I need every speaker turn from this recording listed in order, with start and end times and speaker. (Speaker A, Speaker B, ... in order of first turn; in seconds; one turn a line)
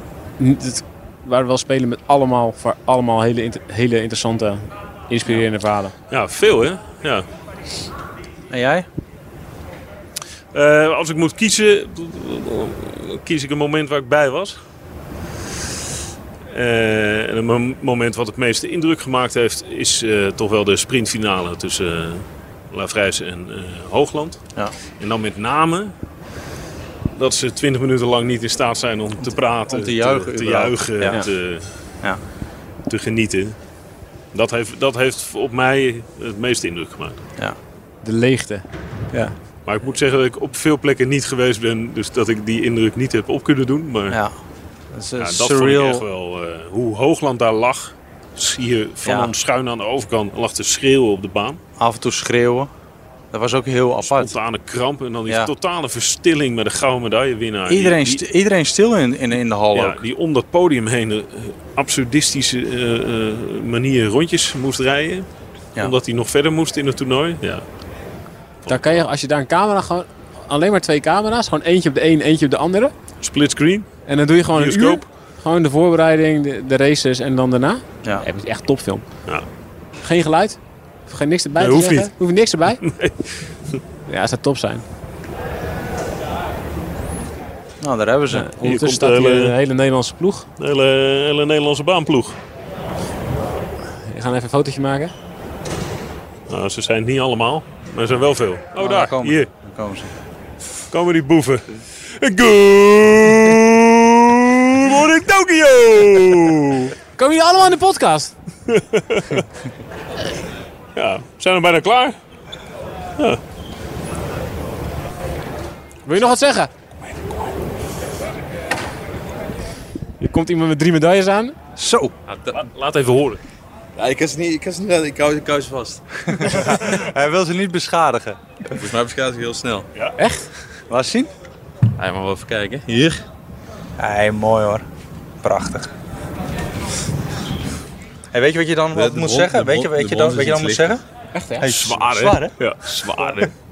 Speaker A: 0.4-5.9
Speaker B: 6.1-7.2
Speaker C: 8.5-8.9
Speaker B: 10.5-14.6
Speaker B: 16.5-24.4
Speaker B: 25.0-25.9
Speaker B: 27.1-31.7
Speaker C: 29.7-31.2
Speaker B: 32.9-33.6
Speaker B: 34.3-37.2
Speaker A: 38.0-38.6
Speaker B: 39.7-44.2
Speaker C: 44.9-46.0
Speaker B: 45.2-51.6
Speaker C: 49.0-49.3
Speaker C: 51.8-52.7
Speaker C: 53.3-54.3
Speaker B: 54.0-58.2
Speaker C: 57.7-60.0
Speaker B: 59.7-65.3
Speaker B: 65.8-67.6
Speaker B: 68.7-69.0
Speaker A: 68.7-72.9
Speaker B: 73.2-73.9
Speaker A: 74.1-79.0
Speaker B: 74.5-75.0
Speaker A: 80.0-82.8
Speaker B: 81.6-82.1
Speaker B: 82.8-83.2
Speaker A: 84.1-84.8
Speaker C: 87.8-88.5
Speaker A: 88.3-90.5
Speaker B: 88.6-89.5
Speaker B: 90.6-92.4
Speaker A: 94.0-95.1
Speaker B: 96.5-99.5
Speaker C: 98.8-100.1
Speaker B: 100.9-106.9
Speaker A: 107.2-108.3
Speaker B: 108.7-109.4
Speaker B: 111.0-112.2
Speaker A: 116.1-116.7
Speaker A: 120.2-121.5
Speaker C: 121.8-122.1
Speaker D: 122.3-122.6
Speaker B: 122.5-123.4
Speaker D: 124.0-126.5
Speaker C: 126.3-128.4
Speaker D: 128.8-129.9
Speaker A: 130.2-130.5
Speaker C: 130.9-131.3
Speaker D: 132.0-133.2
Speaker C: 134.0-134.8
Speaker C: 135.4-135.9
Speaker C: 138.3-141.0
Speaker D: 138.9-141.0
Speaker A: 141.3-141.7
Speaker C: 141.6-142.5
Speaker B: 141.7-143.5